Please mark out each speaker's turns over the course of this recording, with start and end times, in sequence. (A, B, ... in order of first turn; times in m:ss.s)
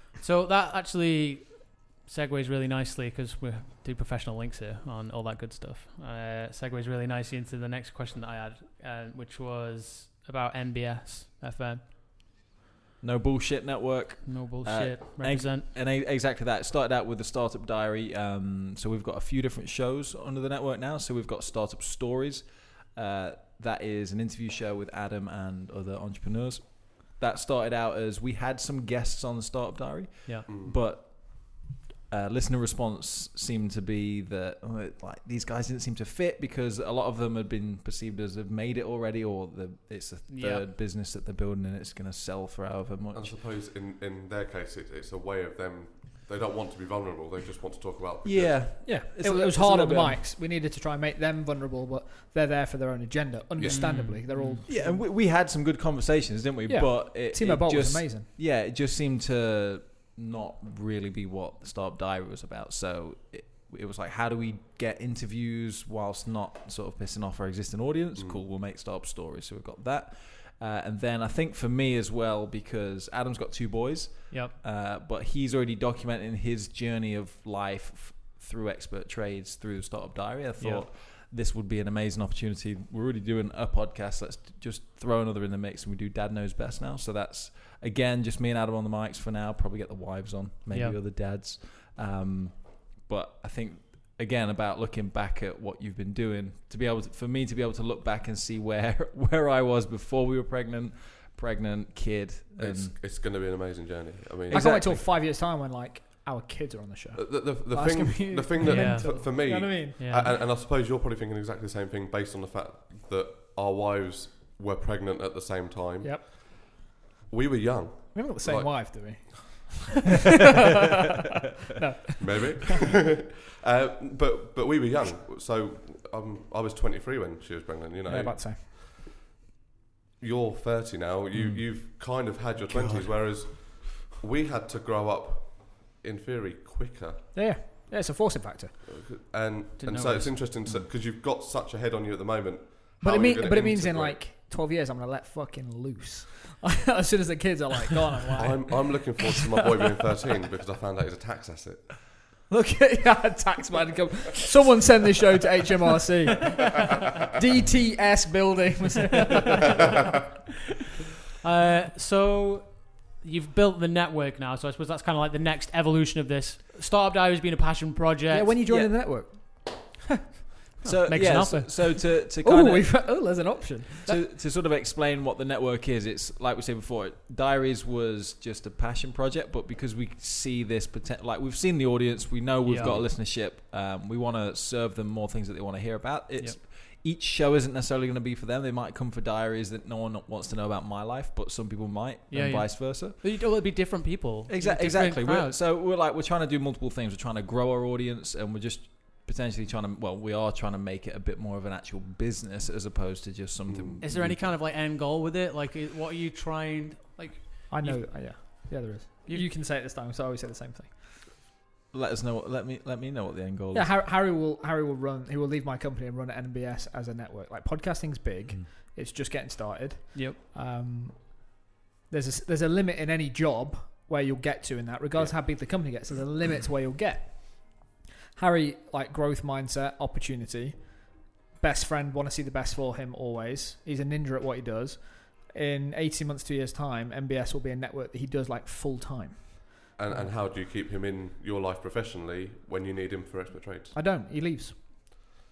0:00.2-0:11.8 A
0:13.0-0:43.4 B
0:14.2-0:15.7 A
0:30.5-0:30.8 C
0:40.3-0:40.6 A
0:43.1-0:48.8 C
0:48.2-0:50.2 B
0:48.8-0:55.0 D
0:53.6-0:54.0 C
0:53.7-0:54.6 A
0:54.5-1:43.0 B
0:56.7-0:58.3 D
1:08.2-1:08.4 C
1:20.6-1:20.9 A
1:30.7-1:31.0 A
1:42.6-1:44.8 C
1:44.5-1:45.0 B
1:44.5-1:50.0 D
1:47.2-1:56.8 C
1:48.6-1:49.4 A
1:50.0-1:50.3 A
1:56.0-1:56.7 D
1:57.3-1:59.4 C
1:58.1-2:00.1 D
2:01.8-2:02.7 D
2:02.2-2:08.8 C
2:08.1-2:08.6 D
2:10.2-2:17.3 C
2:11.3-2:11.7 B
2:12.7-2:13.1 B
2:17.3-2:18.8 D
2:18.8-2:24.2 C
2:19.8-2:20.5 A
2:23.0-2:29.4 D
2:28.4-2:32.0 C
2:32.5-2:39.8 D
2:41.4-2:48.6 A
2:48.3-2:50.0 D
2:48.7-2:49.1 B
2:50.8-2:52.0 A
2:50.8-2:53.5 B
2:52.4-2:54.2 D
2:54.0-3:13.2 B
3:02.6-3:02.9 A
3:02.8-3:03.1 C
3:12.3-3:15.6 A
3:14.5-3:24.4 B
3:23.7-3:24.2 C
3:24.0-3:29.5 A
3:27.7-3:30.9 D
3:31.9-3:33.9 B
3:33.7-4:00.3 D
4:00.0-4:03.9 C
4:03.9-4:05.3 D